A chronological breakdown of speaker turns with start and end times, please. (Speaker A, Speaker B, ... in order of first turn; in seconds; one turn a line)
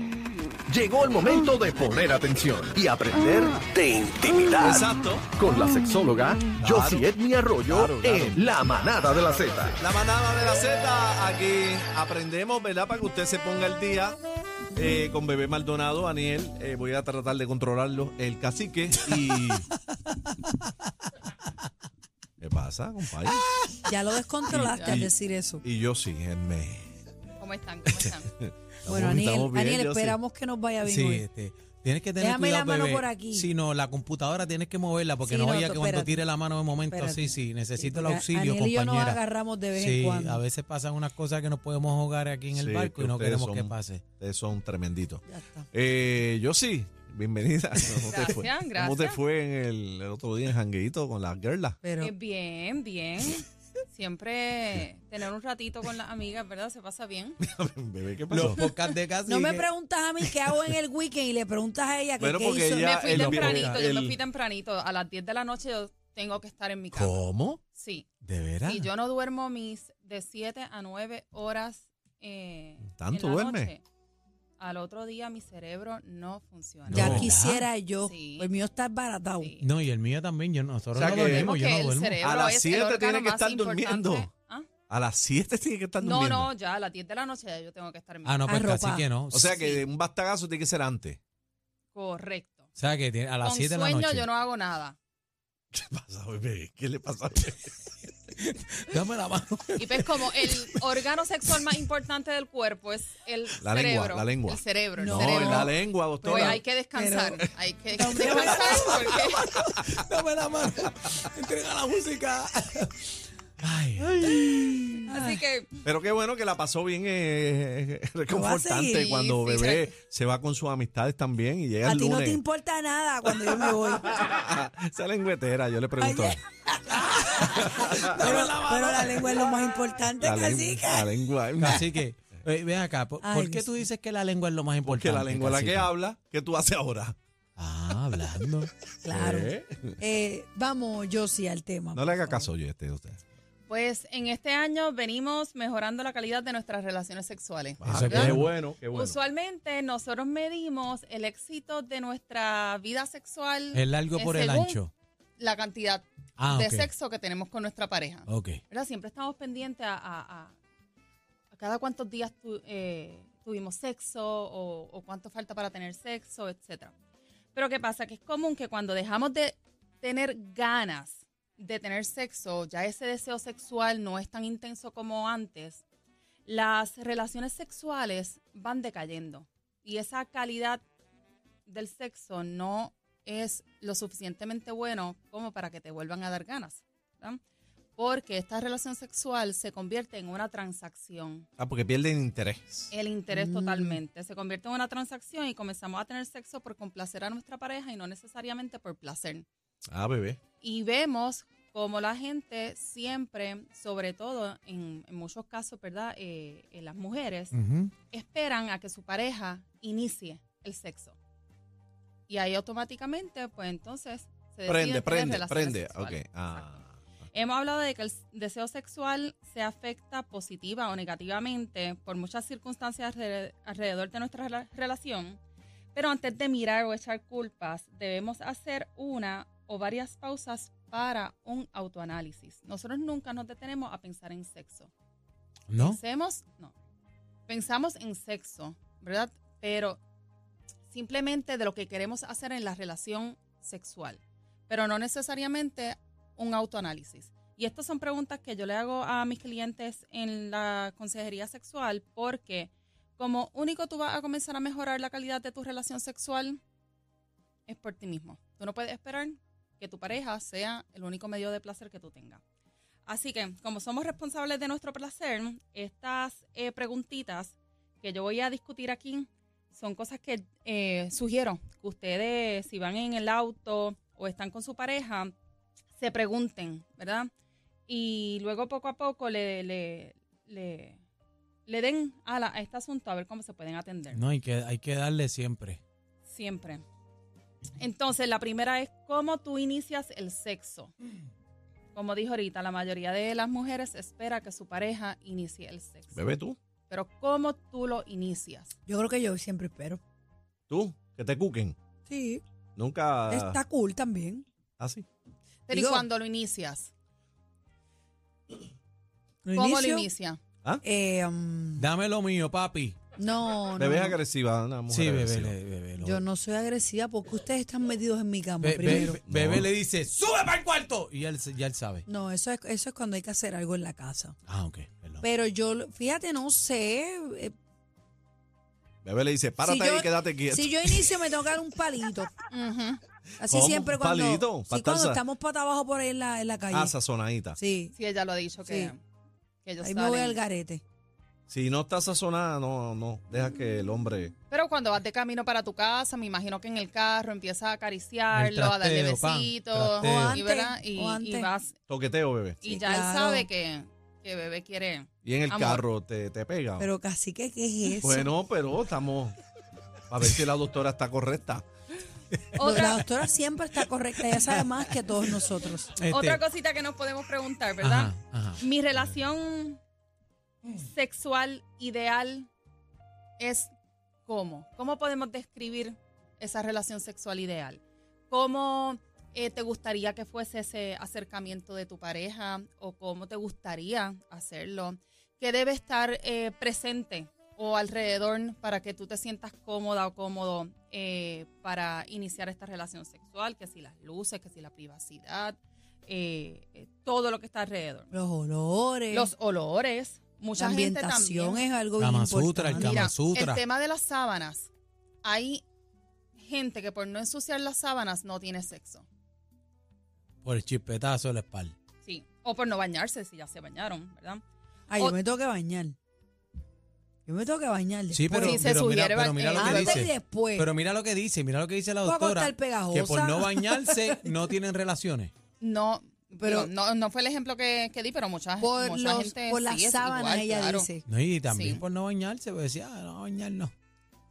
Speaker A: 0.7-9.8
Speaker B: 4.6-5.3
Speaker B: 6.6-7.1
Speaker B: 7.6-8.5
Speaker B: 9.3-14.2
Speaker B: 14.7-19.7
Speaker C: 20.1-20.5
Speaker B: 22.4-23.4
Speaker C: 23.9-25.6
Speaker B: 24.5-25.1
Speaker D: 24.6-25.1
Speaker B: 25.6-27.0
Speaker D: 27.4-28.3
Speaker B: 28.0-30.2
Speaker C: 28.9-31.3
Speaker E: 30.9-39.2
Speaker C: 32.2-33.5
Speaker C: 35.2-36.3
Speaker C: 36.8-40.4
Speaker E: 39.7-44.0
Speaker B: 42.5-51.8
Speaker C: 45.3-45.7
Speaker D: 48.0-49.2
Speaker C: 51.8-52.1
Speaker D: 52.0-57.4
Speaker B: 57.4-58.6
Speaker E: 58.3-59.7
Speaker C: 59.3-63.7
Speaker B: 62.2-64.2
Speaker D: 62.9-67.2
Speaker E: 66.9-67.6
Speaker D: 67.7-68.1
Speaker E: 68.2-68.9
Speaker D: 68.7-73.8
Speaker B: 72.9-73.7
Speaker D: 74.6-77.2
Speaker E: 76.9-77.7
Speaker B: 76.9-77.3
Speaker C: 76.9-79.5
Speaker D: 78.0-78.5
Speaker D: 79.4-79.7
Speaker E: 79.6-82.2
Speaker B: 80.9-81.5
Speaker D: 81.0-84.7
Speaker B: 82.2-84.3
Speaker B: 84.9-86.5
Speaker D: 86.0-88.6
Speaker E: 88.2-89.5
Speaker C: 88.5-89.0
Speaker B: 89.3-91.2
Speaker D: 89.4-89.8
Speaker D: 91.9-92.7
Speaker E: 92.8-94.3
Speaker D: 93.4-95.0
Speaker B: 95.7-97.7
Speaker E: 98.4-100.1
Speaker D: 99.8-109.6
Speaker B: 103.6-106.6
Speaker C: 105.0-107.4
Speaker C: 107.9-108.9
Speaker E: 108.2-113.1
Speaker E: 113.6-114.3
Speaker B: 114.0-114.9
Speaker C: 115.0-115.4
Speaker D: 115.1-115.7
Speaker B: 115.8-122.4
Speaker C: 118.3-119.1
Speaker D: 118.9-119.9
Speaker C: 121.8-124.2
Speaker B: 123.7-126.4
Speaker C: 126.0-131.7
Speaker E: 127.0-129.6
Speaker B: 127.5-128.5
Speaker B: 130.2-131.9
Speaker E: 131.6-135.9
Speaker C: 133.2-133.9
Speaker B: 134.8-137.2
Speaker E: 137.6-138.7
Speaker C: 139.1-142.5
Speaker B: 139.1-139.9
Speaker B: 141.9-143.2
Speaker D: 143.7-154.8
Speaker B: 147.8-149.2
Speaker E: 147.8-148.5
Speaker E: 153.7-154.9
Speaker D: 155.4-160.6
Speaker E: 156.4-156.9
Speaker E: 158.3-158.6
Speaker D: 161.5-166.9
Speaker D: 167.5-175.8
Speaker D: 176.4-180.8
Speaker D: 181.7-187.4
Speaker D: 188.0-191.5
Speaker B: 191.6-192.9
Speaker D: 192.9-199.5
Speaker C: 193.3-194.0
Speaker B: 199.9-200.4
Speaker D: 200.6-207.5
Speaker E: 207.5-207.9
Speaker D: 208.1-211.2
Speaker D: 212.3-216.8
Speaker B: 214.7-217.0
Speaker D: 217.3-225.4
Speaker D: 225.9-234.9
Speaker E: 235.7-236.0
Speaker D: 235.8-236.7
Speaker D: 237.5-240.0
Speaker D: 240.9-256.6
Speaker D: 257.7-262.4
Speaker D: 263.1-275.3
Speaker D: 276.0-277.3
Speaker D: 277.9-281.0
Speaker D: 281.7-284.2
Speaker E: 284.1-285.8
Speaker D: 286.3-286.8
Speaker D: 287.8-290.9
Speaker D: 291.9-296.2
Speaker B: 296.1-296.6
Speaker D: 296.9-298.7
Speaker C: 298.9-300.0
Speaker B: 300.7-301.8
Speaker C: 302.1-302.4
Speaker B: 302.8-303.6
Speaker C: 303.3-304.5
Speaker B: 304.8-305.1
Speaker D: 305.7-306.9
Speaker C: 305.7-306.1
Speaker C: 309.4-310.1
Speaker D: 309.5-310.4
Speaker C: 310.8-311.9
Speaker E: 311.8-313.0
Speaker C: 313.2-314.2
Speaker B: 313.8-315.6
Speaker E: 314.9-316.2
Speaker C: 316.0-319.2
Speaker E: 318.6-322.1
Speaker B: 318.9-319.7
Speaker C: 322.1-324.4
Speaker E: 324.5-325.2
Speaker C: 325.2-327.5
Speaker B: 329.0-331.2
Speaker C: 329.6-332.3
Speaker D: 332.5-333.0
Speaker C: 333.4-336.9
Speaker B: 333.5-335.2
Speaker B: 336.7-337.6
Speaker C: 337.6-337.9
Speaker D: 337.9-339.0
Speaker C: 338.6-338.9
Speaker D: 339.6-340.4
Speaker C: 339.8-340.8
Speaker B: 341.5-344.3
Speaker D: 344.5-351.8
Speaker E: 348.3-350.4
Speaker C: 350.0-351.5
Speaker B: 351.9-352.6
Speaker D: 352.6-355.9
Speaker C: 352.7-353.5
Speaker B: 355.2-356.9
Speaker C: 356.8-358.3
Speaker B: 358.0-359.4
Speaker B: 360.1-361.7
Speaker D: 362.6-363.0
Speaker C: 362.6-365.9
Speaker E: 366.0-366.4
Speaker D: 366.1-369.8
Speaker E: 367.8-368.6
Speaker D: 370.8-372.5
Speaker D: 373.4-373.7
Speaker D: 374.3-398.1
Speaker C: 398.1-399.3
Speaker D: 399.1-401.6
Speaker C: 400.6-403.0
Speaker E: 402.0-403.6
Speaker D: 402.7-404.7
Speaker D: 405.2-405.6
Speaker D: 406.4-409.1
Speaker E: 410.4-411.7
Speaker D: 412.0-414.4
Speaker C: 414.9-415.9
Speaker C: 417.3-418.7
Speaker E: 418.1-425.3
Speaker D: 418.3-420.1
Speaker C: 419.6-420.7
Speaker C: 422.0-424.5
Speaker D: 425.6-430.9
Speaker C: 426.4-426.7
Speaker C: 428.6-431.0
Speaker E: 431.1-433.7
Speaker D: 431.5-431.8